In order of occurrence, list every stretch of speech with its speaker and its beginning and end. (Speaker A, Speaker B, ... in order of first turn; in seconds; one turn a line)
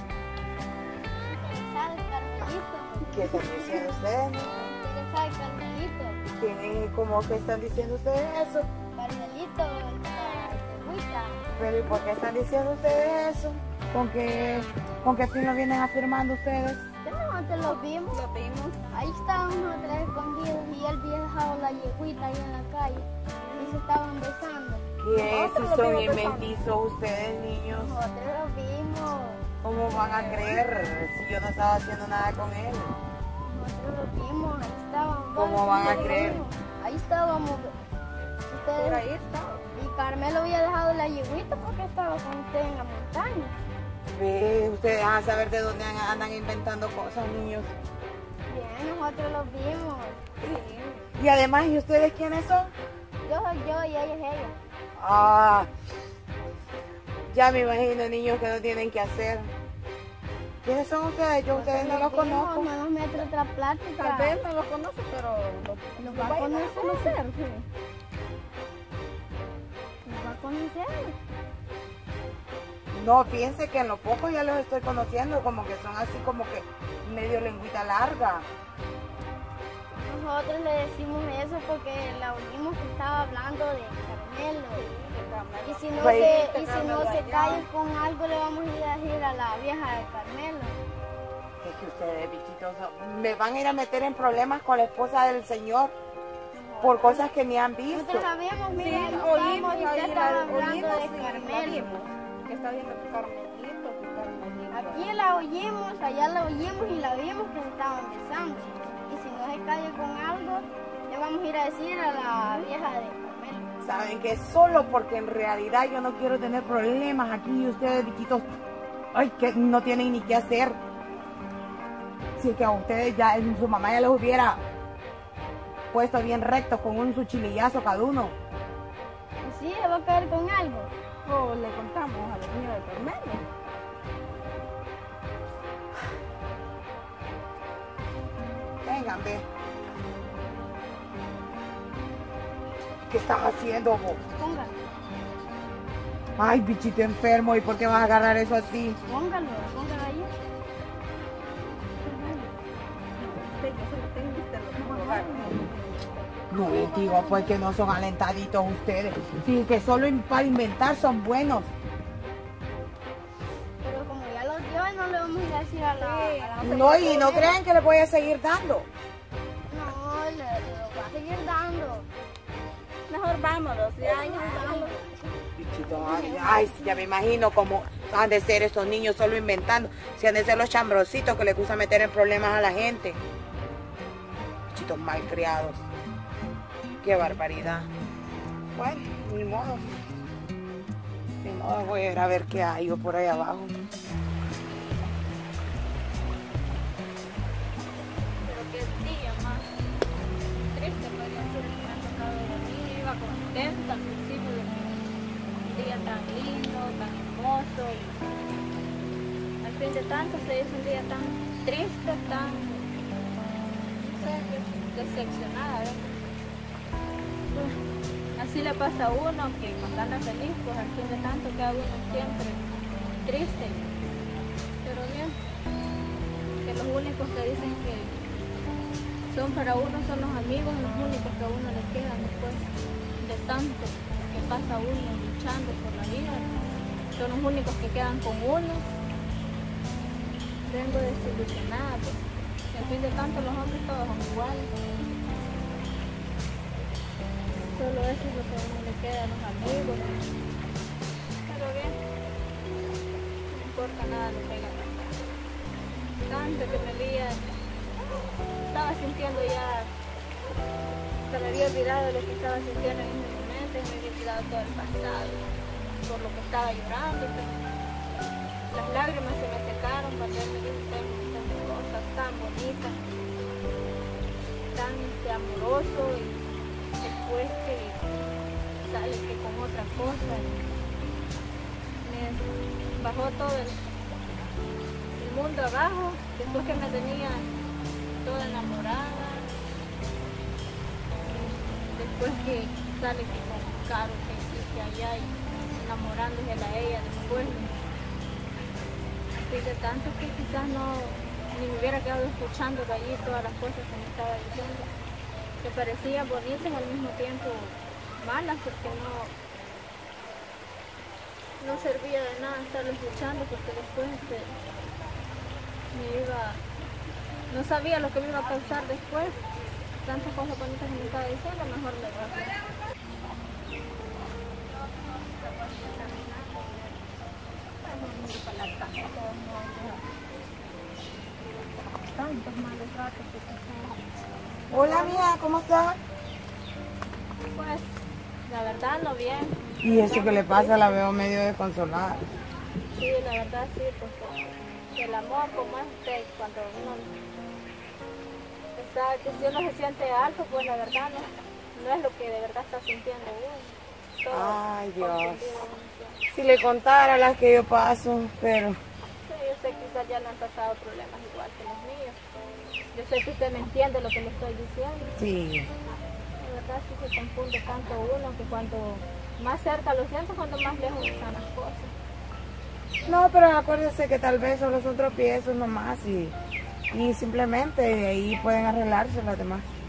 Speaker A: 1.2-3.9
Speaker B: 3.1-4.5
Speaker A: 4.6-6.2
Speaker B: 6.2-8.7
Speaker A: 8.9-11.5
Speaker B: 11.6-16.9
Speaker A: 17.0-18.2
Speaker C: 18.1-18.8
Speaker A: 18.9-24.8
Speaker B: 25.0-27.9
Speaker C: 25.1-26.5
Speaker A: 27.7-29.4
Speaker B: 29.6-33.0
Speaker C: 29.9-30.6
Speaker A: 33.4-37.8
Speaker B: 35.4-36.4
Speaker A: 38.5-39.1
Speaker C: 38.6-39.6
Speaker A: 39.7-43.5
Speaker B: 44.1-47.7
Speaker A: 48.5-50.2
Speaker C: 50.4-51.0
Speaker B: 51.2-52.7
Speaker A: 53.2-54.5
Speaker B: 55.0-55.7
Speaker B: 57.3-59.5
Speaker B: 60.6-62.7
Speaker A: 61.5-64.4
Speaker C: 64.0-67.2
Speaker A: 66.0-67.3
Speaker A: 70.0-71.2
Speaker B: 72.9-78.5
Speaker A: 79.9-84.8
Speaker C: 84.7-87.7
Speaker A: 85.6-90.7
Speaker B: 86.0-86.4
Speaker B: 91.6-95.9
Speaker A: 96.5-97.3
Speaker B: 96.8-98.3
Speaker A: 97.9-102.0
Speaker C: 98.8-105.1
Speaker A: 104.7-113.7
Speaker B: 113.8-118.5
Speaker B: 119.1-120.8
Speaker B: 122.4-124.6
Speaker B: 125.9-128.4
Speaker A: 129.4-130.9
Speaker C: 131.2-133.4
Speaker B: 138.8-139.4
Speaker B: 143.1-144.2
Speaker A: 144.4-144.7
Speaker B: 146.4-149.0
Speaker A: 149.1-150.3
Speaker A: 152.1-152.5
Speaker C: 153.2-155.7
Speaker A: 154.8-155.7
Speaker B: 156.5-161.7
Speaker A: 156.5-157.5
Speaker A: 163.8-167.5
Speaker C: 165.9-166.7
Speaker B: 166.6-168.9
Speaker A: 169.7-172.1
Speaker C: 173.1-174.9
Speaker A: 174.0-175.0
Speaker B: 175.6-183.2
Speaker A: 175.9-176.9
Speaker B: 184.7-185.9
Speaker B: 187.0-187.9
Speaker B: 188.7-190.0
Speaker B: 191.4-193.8
Speaker D: 198.4-199.7
Speaker D: 200.7-204.9
Speaker D: 205.6-208.2
Speaker D: 209.6-212.9
Speaker D: 214.0-216.1
Speaker D: 218.4-222.6
Speaker D: 223.2-223.8
Speaker D: 224.8-225.4
Speaker D: 226.6-228.2
Speaker D: 229.3-232.7
Speaker D: 233.2-236.6
Speaker D: 237.2-238.8
Speaker D: 240.7-244.7
Speaker D: 247.7-250.3
Speaker D: 251.5-252.0
Speaker D: 253.5-255.2
Speaker D: 256.3-257.4
Speaker D: 258.6-259.9
Speaker D: 261.2-265.5
Speaker D: 266.0-267.7
Speaker D: 268.7-273.0
Speaker D: 274.7-276.4
Speaker D: 277.0-278.0
Speaker D: 278.8-280.6
Speaker D: 282.0-282.5
Speaker D: 283.0-283.8
Speaker D: 285.2-287.5
Speaker D: 288.2-289.5
Speaker D: 291.3-297.8
Speaker D: 299.3-304.9
Speaker D: 305.6-309.3
Speaker D: 311.6-314.5
Speaker D: 315.9-316.6
Speaker D: 317.5-319.4
Speaker D: 320.0-322.5
Speaker D: 324.7-327.0
Speaker D: 327.8-330.0
Speaker D: 332.1-334.0
Speaker D: 334.7-335.3
Speaker B: 334.7-336.0
Speaker D: 337.5-337.9
Speaker D: 338.5-341.0
Speaker B: 339.8-342.3
Speaker D: 342.9-344.4
Speaker D: 344.9-347.1
Speaker D: 348.8-356.2
Speaker B: 354.3-355.5
Speaker B: 356.3-358.8
Speaker D: 359.2-362.2
Speaker D: 362.9-365.2
Speaker B: 365.2-365.7
Speaker D: 366.4-371.9
Speaker B: 373.1-376.4
Speaker B: 376.9-379.7